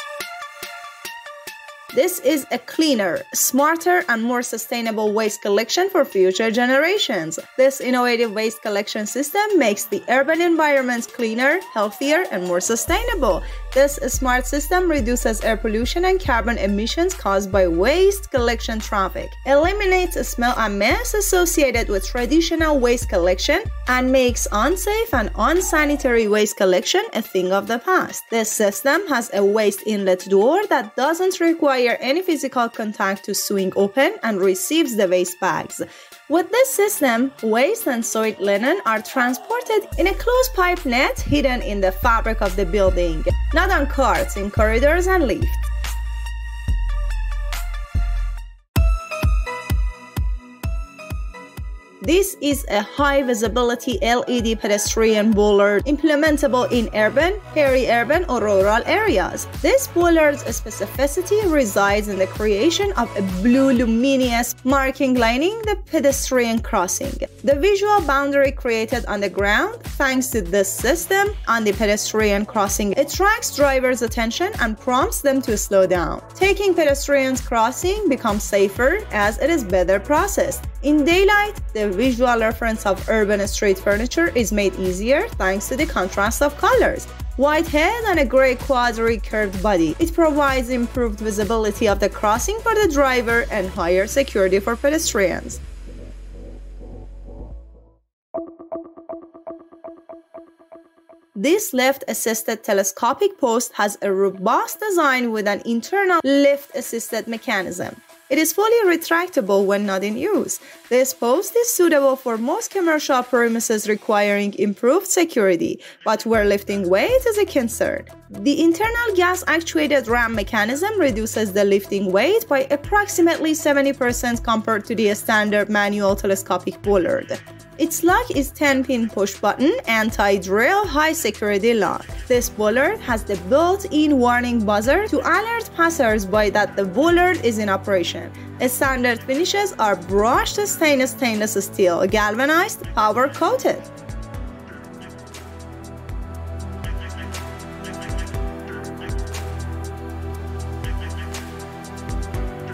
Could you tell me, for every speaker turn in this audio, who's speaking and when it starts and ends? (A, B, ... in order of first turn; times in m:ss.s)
0:01.9-0:45.7 A
0:52.0-1:35.6 A
1:41.3-2:23.9 A